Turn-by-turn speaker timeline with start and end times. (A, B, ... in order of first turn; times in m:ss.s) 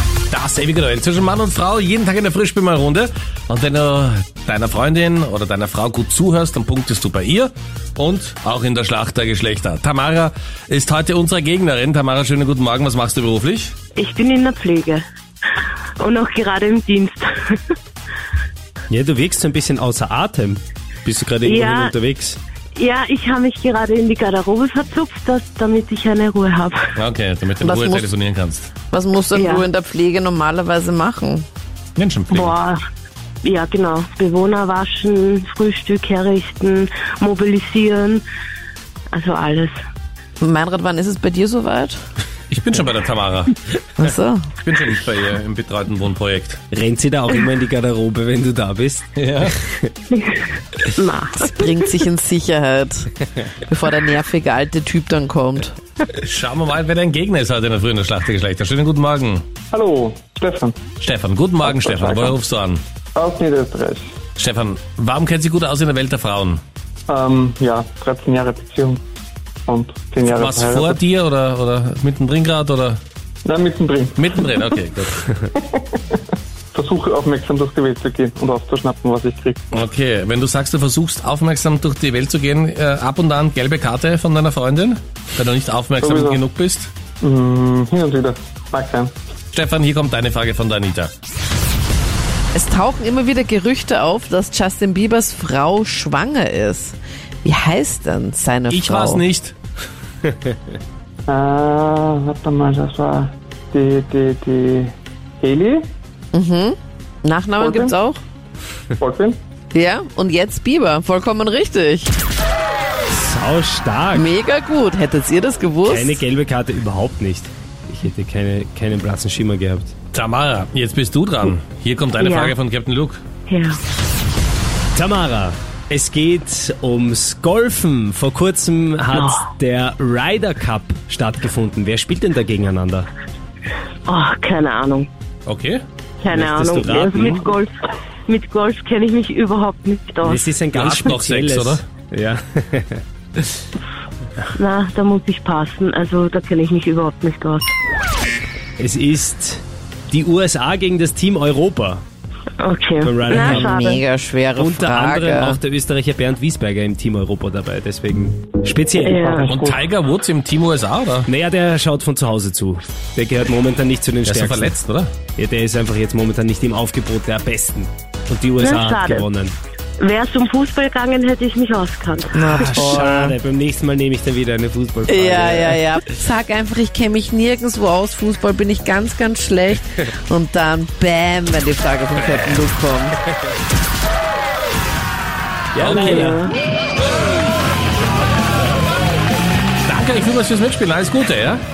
0:00.3-0:13.8 A
0:14.0-0:15.0 B
0:16.0-0:17.6 B
0:18.9-0:22.4 C
0:21.4-0:22.0 B
0:22.7-0:26.9 B
0:27.0-0:28.7 A
0:27.6-0:28.1 D
0:28.9-0:31.5 D
0:29.3-0:29.7 B
0:32.0-0:32.5 A
0:32.3-0:32.8 B
0:33.4-0:38.2 B
0:39.1-0:39.7 B
0:40.4-0:42.0 D
0:42.5-0:46.6 A
0:44.0-0:44.5 D
0:46.7-0:49.9 C
0:49.2-0:49.5 A
0:50.1-0:52.0 B
0:51.6-0:53.1 D
0:53.6-0:55.8 D
0:56.2-0:59.4 A
0:59.7-1:00.8 E
1:01.0-1:02.8 A
1:01.6-1:02.4 E
1:03.2-1:04.0 E
1:04.4-1:06.6 A
1:07.1-1:09.0 E
1:09.7-1:11.0 E
1:10.2-1:13.0 A
1:13.4-1:14.8 E
1:14.2-1:15.3 A
1:15.4-1:16.2 E
1:16.7-1:19.6 E
1:19.7-1:26.9 A
1:26.0-1:26.4 E
1:27.2-1:29.1 E
1:29.5-1:31.1 A
1:32.5-1:39.2 D
1:38.7-1:39.6 A
1:41.3-1:45.9 E
1:46.3-1:48.2 D
1:47.6-1:47.9 E
1:49.0-1:49.4 E
1:49.7-1:52.2 D
1:53.1-1:54.3 C
1:54.2-1:56.2 D
1:55.9-1:59.9 C
2:00.1-2:03.2 A
2:02.2-2:02.6 B
2:03.5-2:03.8 B
2:05.0-2:13.1 C
2:09.1-2:09.5 B
2:14.1-2:15.1 B
2:15.5-2:15.8 A
2:16.2-2:17.7 B
2:16.3-2:17.4 C
2:18.3-2:20.5 B
2:20.2-2:23.4 C
2:20.7-2:21.8 A
2:24.5-2:27.7 B
2:28.8-2:32.0 C
2:32.6-2:34.0 B
2:33.0-2:33.8 C
2:33.7-2:35.5 D
2:34.6-2:39.4 C
2:39.0-2:39.4 B
2:39.2-2:39.9 E
2:39.5-2:41.3 A
2:41.3-2:44.8 C
2:44.2-2:45.1 A
2:45.4-2:49.6 C
2:48.6-2:49.3 B
2:50.0-2:52.8 B
2:52.3-2:53.4 D
2:52.5-2:56.1 C
2:55.1-3:03.2 D
3:05.8-3:06.4 C
3:05.8-3:06.3 A
3:05.9-3:06.5 B
3:09.8-3:11.6 A